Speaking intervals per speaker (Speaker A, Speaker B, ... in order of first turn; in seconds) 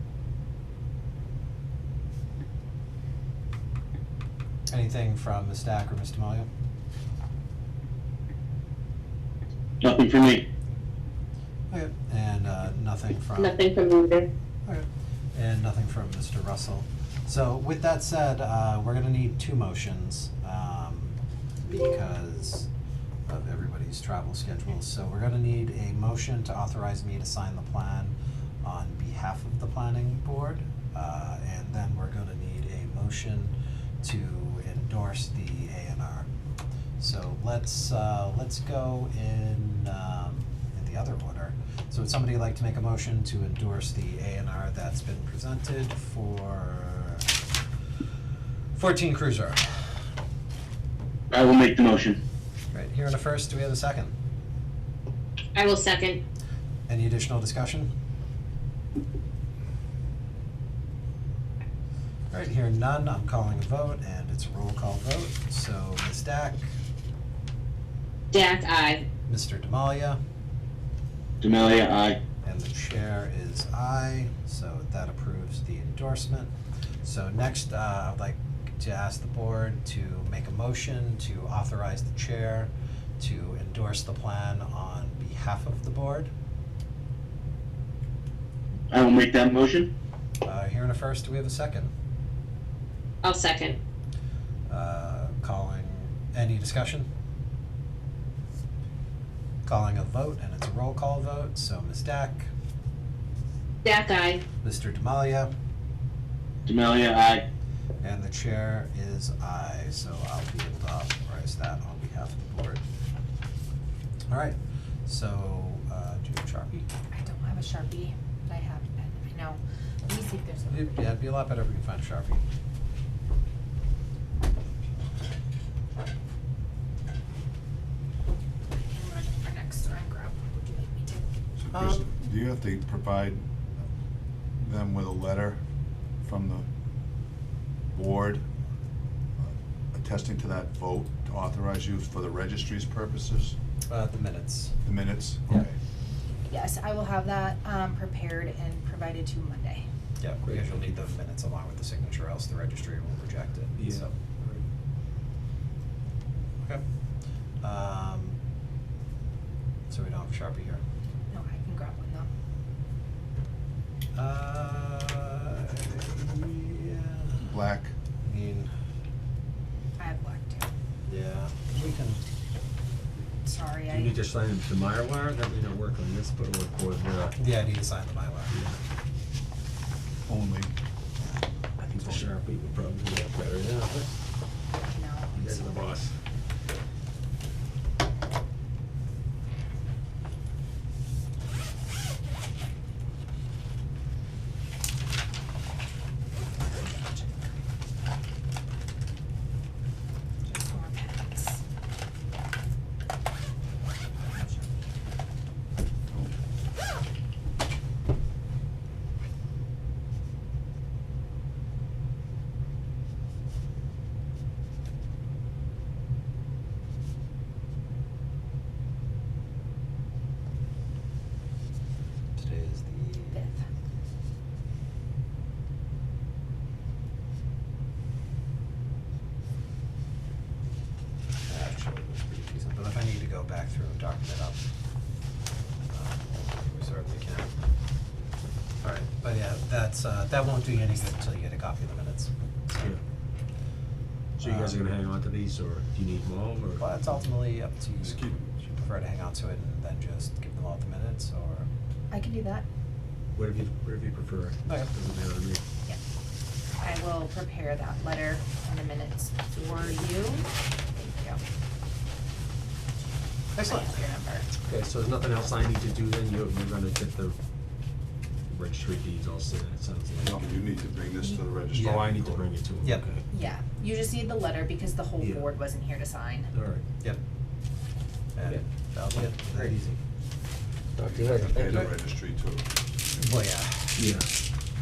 Speaker A: 4.7-6.5, 11.7-13.6, 14.7-22.7, 23.3-36.3, 37.0-47.3, 48.8-49.6, 52.7-54.1, 56.9-57.9, 62.3-66.7, 69.3-70.2, 72.4-76.5, 77.0-86.3, 90.4-91.9, 94.7-97.1, 99.7-102.5, 104.6-105.5, 108.0-112.8, 114.3-116.9, 120.7-122.4, 131.7-132.1, 143.9-144.7, 150.2-154.1, 157.6-158.4, 159.9-160.8, 164.2-167.4, 168.2-168.7, 171.1-172.2, 177.4-178.5, 222.4-223.4, 231.5-234.6, 235.9-237.5, 238.8-242.3, 244.4-244.8, 246.8-251.7, 263.6-263.9, 278.4-280.0, 283.2-284.0
Speaker B: 9.8-10.4, 51.3-52.2, 71.4-72.2, 88.9-89.9, 106.7-107.5
Speaker C: 13.4-14.3, 55.5-56.2, 68.3-69.0, 93.2-93.8, 103.8-104.4
Speaker D: 117.1-121.1, 128.8-131.3, 146.5-149.9, 161.3-162.3, 170.0-170.7, 173.4-174.2, 184.9-185.9, 196.4-197.5, 200.5-201.6, 204.3-204.9, 223.3-223.6, 252.1-252.7, 256.8-261.4, 263.6-264.5, 273.3-276.5
Speaker E: 131.6-133.4, 134.6-135.6, 136.2-136.7, 137.9-138.4, 139.4-143.6, 144.8-145.8, 167.4-167.9, 180.3-180.7, 248.0-248.6, 270.2-272.5, 281.2-282.7
Speaker F: 150.4-150.8, 153.7-154.7, 173.9-177.4, 178.5-178.8, 181.8-184.1, 185.3-186.2, 244.4-247.2, 253.3-255.6, 264.6-267.4, 268.5-270.4, 271.7-273.2, 275.2-275.5, 276.5-276.9, 279.5-279.9, 280.9-281.9, 283.9-284.3